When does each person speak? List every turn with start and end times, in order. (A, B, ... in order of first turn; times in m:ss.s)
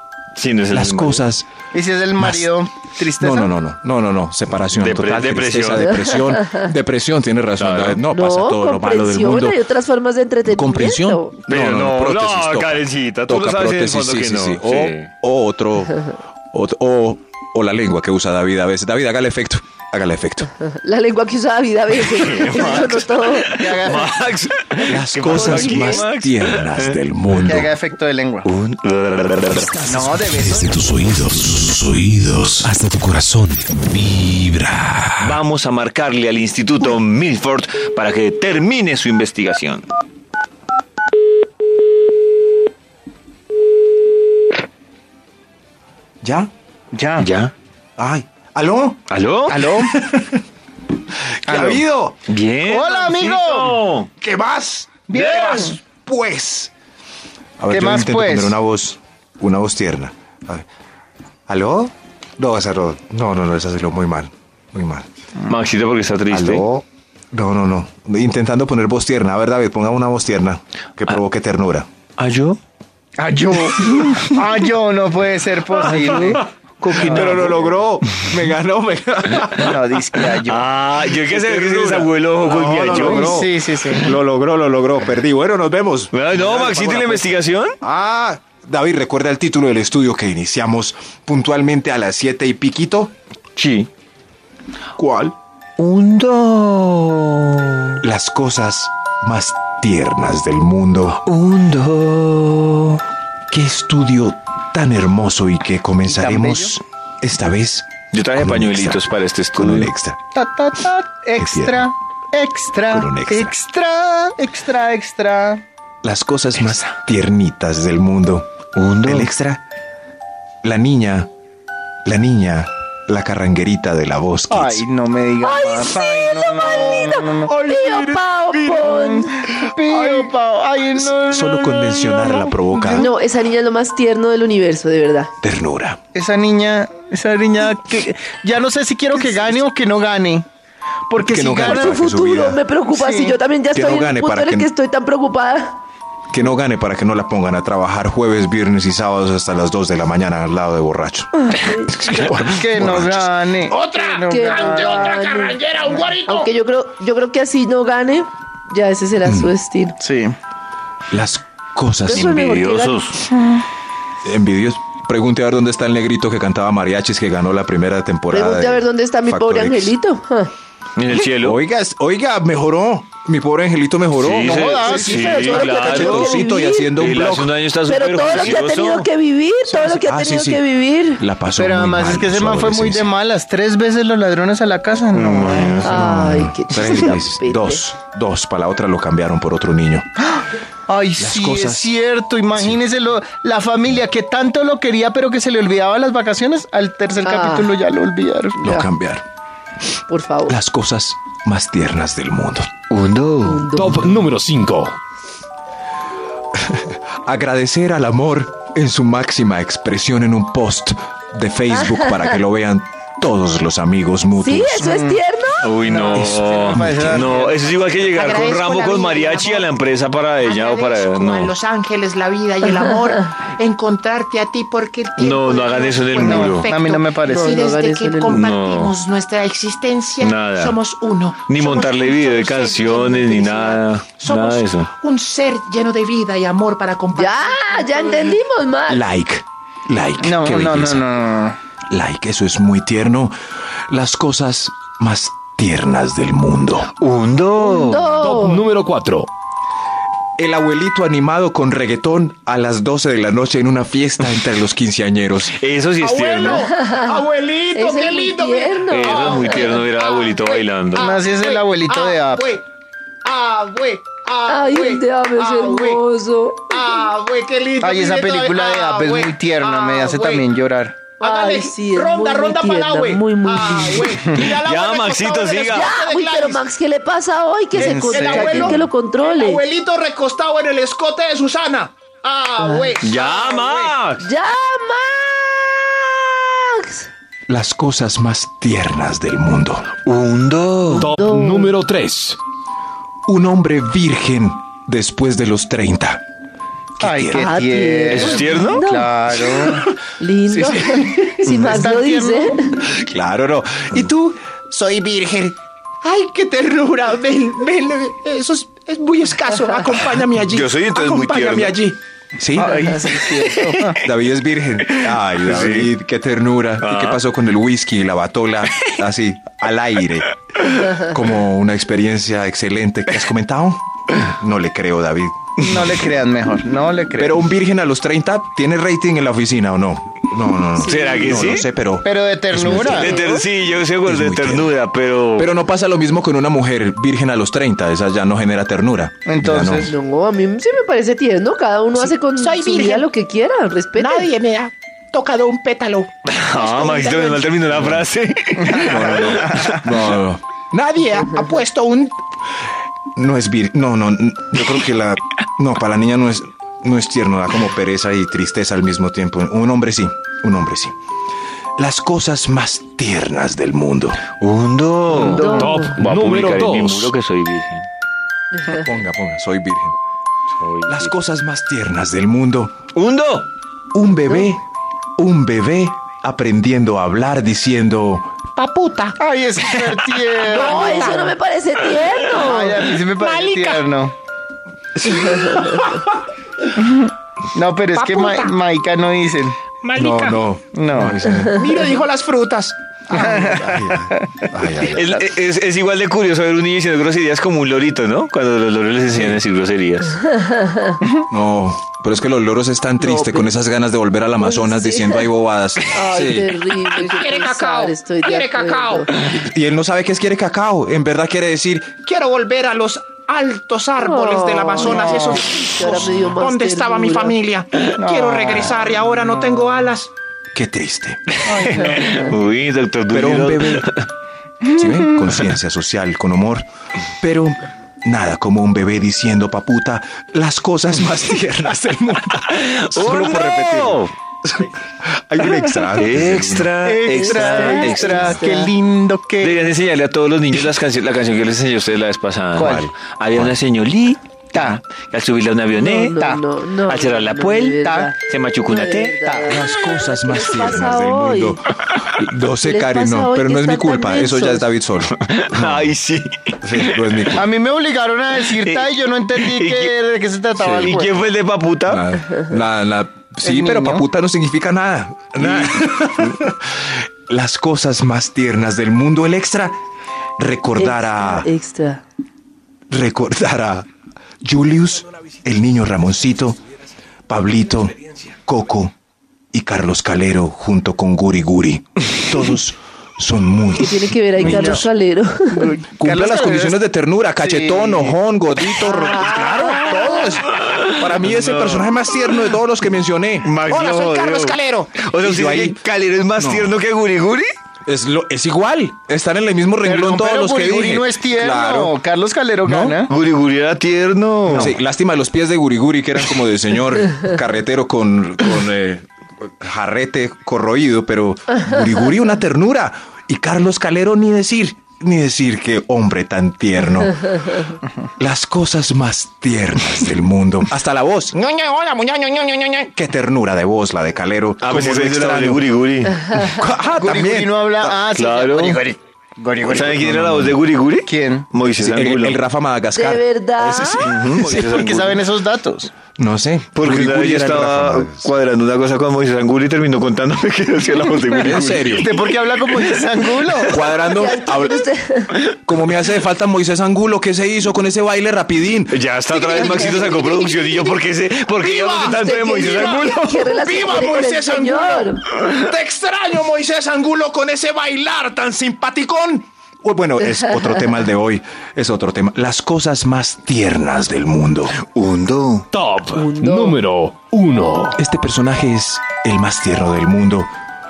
0:00.3-0:01.2 A
0:00.7-0:01.5 B
0:01.7-0:03.5 C
0:02.2-0:02.5 B
0:03.2-0:09.6 B
0:04.7-0:05.9 A
0:05.8-0:06.7 D
0:07.6-0:08.0 A
0:08.1-0:11.3 D
0:10.5-0:20.5 B
0:11.5-0:15.1 A
0:20.6-0:23.9 D
0:22.0-0:27.0 A
0:22.5-0:22.9 C
0:23.4-0:24.1 C
0:24.8-0:27.7 B
0:25.3-0:26.0 D
0:27.4-0:28.5 C
0:28.4-0:29.8 A
0:29.6-0:30.6 B
0:29.8-0:30.6 C
0:30.2-0:35.4 E
0:35.2-0:39.8 A
0:46.2-0:46.5 B
0:46.9-0:47.3 C
0:47.2-0:47.5 A
0:48.0-0:49.0 B
0:49.1-0:49.7 A
0:49.5-0:50.0 C
0:49.9-0:50.4 B
0:51.4-0:52.2 B
0:51.5-0:51.8 C
0:52.3-0:54.1 A
0:52.6-0:53.8 C
0:54.2-0:56.7 B
0:55.1-0:55.8 C
0:57.6-1:00.6 B
0:57.7-0:58.6 C
1:01.5-1:05.1 B
1:05.5-1:06.6 A
1:06.3-1:11.9 B
1:12.2-1:12.6 A
1:13.2-1:17.5 C
1:15.9-1:16.2 A
1:16.8-1:17.6 A
1:16.9-1:20.1 B
1:19.5-1:20.7 C
1:20.4-1:23.3 A
1:21.0-1:22.1 B
1:22.4-1:24.2 C
1:22.7-1:33.1 B
1:26.1-1:27.8 A
1:33.6-1:33.9 A
1:35.0-1:35.3 B
1:35.8-1:38.0 A
1:38.0-1:41.2 B
1:41.1-1:43.0 A
1:43.5-1:50.2 B
1:46.0-1:46.8 C
1:48.1-1:49.9 A
1:50.3-1:55.6 C
1:51.4-1:51.8 B
1:52.9-1:53.5 B
1:56.0-1:58.5 B
1:58.7-1:59.3 A
1:59.0-1:59.6 B
2:00.6-2:01.3 B
2:02.0-2:04.8 B
2:04.5-2:07.5 C
2:05.4-2:09.3 D
2:07.5-2:08.6 B
2:08.6-2:13.0 C
2:11.0-2:13.1 B
2:12.9-2:15.3 D
2:15.4-2:16.0 B
2:16.1-2:20.4 C
2:21.1-2:22.0 C
2:21.2-2:22.6 B
2:21.6-2:25.8 D
2:22.9-2:23.4 C
2:23.7-2:24.7 B
2:26.3-2:33.3 B
2:31.5-2:31.9 D
2:32.4-2:35.0 C
2:33.7-2:36.5 F
2:34.2-2:35.6 D
2:36.2-2:40.0 D
2:39.2-2:39.5 B
2:40.0-2:40.4 C
2:41.1-2:42.3 B
2:42.0-2:43.1 D
2:42.1-2:43.3 A
2:43.4-2:43.6 C
2:44.2-2:49.9 B
2:48.3-2:50.5 D
2:51.0-2:51.6 A
2:51.2-2:57.5 B
2:54.1-2:56.4 A
2:54.4-2:55.2 C
2:54.8-2:56.9 D
2:57.0-2:59.1 A
2:57.8-3:01.2 D
2:59.7-3:00.6 B
3:01.2-3:03.1 B
3:01.6-3:05.8 C
3:05.1-3:05.9 A
3:05.7-3:07.8 D
3:05.8-3:10.0 B
3:10.2-3:18.6 C
3:11.2-3:11.9 B
3:17.2-3:17.8 D
3:18.6-3:18.9 D
3:18.6-3:19.2 B
3:20.1-3:20.6 D
3:20.5-3:22.7 B
3:22.9-3:23.7 A
3:23.4-3:24.2 D
3:23.7-3:25.0 G
3:26.7-3:34.9 B
3:31.7-3:32.3 D
3:34.4-3:35.6 D
3:34.8-3:37.8 C
3:35.6-3:41.5 A
3:36.1-3:37.3 B
3:38.1-3:39.7 F
3:40.4-3:58.3 F
3:45.2-3:46.7 A
3:46.2-3:47.5 C
3:47.2-3:48.5 D
3:48.3-3:49.0 A
3:50.2-3:50.8 A
3:51.4-3:54.9 A
3:57.2-3:59.0 D
3:58.9-4:01.0 B
4:00.2-4:01.6 C
4:01.9-4:03.3 B
4:03.9-4:06.9 B
4:07.0-4:08.2 A
4:07.6-4:08.7 D
4:08.2-4:09.3 G
4:10.4-4:15.6 B
4:15.5-4:16.6 A
4:16.0-4:22.6 F
4:16.4-4:19.8 D
4:18.9-4:21.2 A
4:20.9-4:22.5 C
4:23.2-4:26.0 F
4:24.5-4:27.0 D
4:26.7-4:30.4 F
4:27.8-4:31.1 C
4:31.1-4:36.6 F
4:31.2-4:34.2 D
4:34.4-4:36.0 A
4:35.6-4:39.6 D
4:37.7-4:38.8 C
4:38.0-4:43.9 F
4:42.6-4:43.0 D
4:43.0-4:44.3 A
4:44.2-4:47.1 D
4:47.5-4:49.9 B
4:50.0-4:51.1 A
4:50.9-4:51.8 D
4:51.0-4:52.4 G
4:53.3-4:56.2 B
4:57.0-4:57.5 B
4:57.0-4:59.9 C
4:57.3-4:59.1 D
4:58.1-4:58.8 A
5:00.2-5:02.8 D
5:00.7-5:02.5 C
5:02.9-5:05.5 B
5:04.7-5:05.4 F
5:06.0-5:11.6 F
5:09.7-5:10.6 B
5:09.9-5:11.9 A
5:11.3-5:13.0 B
5:12.5-5:14.0 C
5:13.3-5:13.7 A
5:14.0-5:25.6 B
5:14.9-5:15.9 A
5:16.8-5:17.2 A
5:25.6-5:27.4 C
5:27.2-5:33.2 B
5:30.8-5:31.4 D
5:30.8-5:31.7 A
5:32.0-5:33.1 C
5:32.8-5:35.5 A
5:32.9-5:33.4 D
5:34.0-5:34.7 B
5:35.4-5:39.9 B
5:39.3-5:39.9 C
5:39.8-5:44.3 D
5:42.0-5:43.0 F
5:43.9-5:47.6 F
5:46.2-5:50.1 A
5:47.7-5:48.0 B
5:48.7-5:49.3 C
5:48.7-5:52.1 B
5:51.0-5:52.1 F
5:53.2-6:00.9 B
6:01.8-6:04.3 B
6:04.3-6:07.9 A
6:05.2-6:07.1 G
6:05.3-6:06.0 D
6:08.7-6:10.0 B
6:10.6-6:11.1 A
6:10.9-6:12.7 B
6:12.9-6:13.5 A
6:13.9-6:14.6 B
6:15.2-6:18.3 B
6:18.6-6:19.2 F
6:19.2-6:21.2 C
6:20.4-6:21.3 F
6:20.5-6:22.8 D
6:22.3-6:24.1 C
6:22.6-6:23.9 F
6:25.3-6:25.6 D
6:26.7-6:29.7 C
6:27.9-6:28.5 F
6:29.8-6:30.4 F
6:30.0-6:31.6 B
6:30.7-6:31.2 C
6:31.5-6:33.4 F
6:33.1-6:34.4 C
6:33.2-6:35.2 B
6:34.9-6:40.2 A
6:39.1-6:39.4 B
6:40.3-6:41.0 D
6:41.3-6:46.5 B
6:43.0-6:43.5 D
6:44.4-6:45.3 D
6:45.9-6:49.2 D
6:46.9-6:49.1 F
6:49.3-6:52.0 B
6:52.0-7:00.1 F
6:54.0-6:57.4 D
6:54.8-6:55.4 C
6:58.0-6:58.8 C
7:00.5-7:01.4 B
7:01.4-7:02.3 C
7:01.5-7:04.0 A
7:03.1-7:03.9 B
7:04.7-7:06.7 B
7:07.2-7:16.7 B
7:12.5-7:14.1 A
7:15.9-7:18.3 A
7:16.8-7:19.7 C
7:17.2-7:18.7 D
7:19.4-7:26.2 A
7:22.6-7:23.6 B
7:22.6-7:22.8 C
7:24.5-7:24.8 C
7:25.8-7:31.6 D
7:26.2-7:26.4 C
7:26.8-7:29.2 A
7:27.8-7:28.1 C
7:29.2-7:29.6 C
7:29.4-7:35.9 B
7:32.6-7:34.7 D
7:35.1-7:37.4 A
7:36.6-7:37.4 B
7:37.4-7:41.2 C
7:38.5-7:40.0 A
7:40.5-7:42.0 A
7:41.9-7:49.8 B
7:43.4-7:44.0 C
7:45.4-7:45.8 A
7:50.4-7:51.5 B
7:50.8-7:52.0 D
7:52.9-7:53.9 B
7:54.4-7:56.6 B
7:57.3-7:58.9 B
7:59.5-8:04.8 B
8:03.7-8:05.7 D
8:04.4-8:04.9 C
8:05.5-8:06.8 C
8:06.0-8:13.6 B
8:07.4-8:08.2 C
8:09.1-8:10.1 D
8:09.2-8:10.0 C
8:10.5-8:12.4 A
8:13.4-8:17.5 A
8:13.7-8:14.6 F
8:14.6-8:15.8 B
8:16.4-8:16.8 B
8:17.8-8:22.0 B
8:19.8-8:23.1 C
8:22.6-8:23.0 B
8:23.1-8:24.8 A
8:24.5-8:24.8 C
8:24.5-8:41.4 B
8:41.4-8:42.9 F
8:42.9-8:45.7 B
8:44.6-8:46.4 A
8:46.3-8:48.0 B
8:47.0-8:50.2 C
8:48.1-8:48.9 A
8:49.6-8:52.4 A
8:49.8-8:50.6 B
8:51.0-8:51.5 C
8:51.7-8:54.8 B
8:52.9-8:54.1 D
8:54.0-8:55.2 A
8:54.5-8:55.9 C
8:56.2-8:58.3 B
8:56.7-9:02.1 A
9:01.4-9:02.1 B
9:01.8-9:03.8 C
9:03.6-9:04.9 B
9:04.0-9:05.4 D
9:05.6-9:09.0 B
9:08.9-9:13.4 A
9:09.5-9:10.9 D
9:11.6-9:12.2 B
9:12.0-9:15.2 D
9:13.5-9:15.1 B
9:13.8-9:15.0 F
9:15.6-9:16.2 F
9:15.7-9:24.8 B
9:17.8-9:18.2 F
9:24.8-9:25.7 A
9:25.7-9:28.0 G
9:26.1-9:26.8 D
9:28.0-9:30.5 B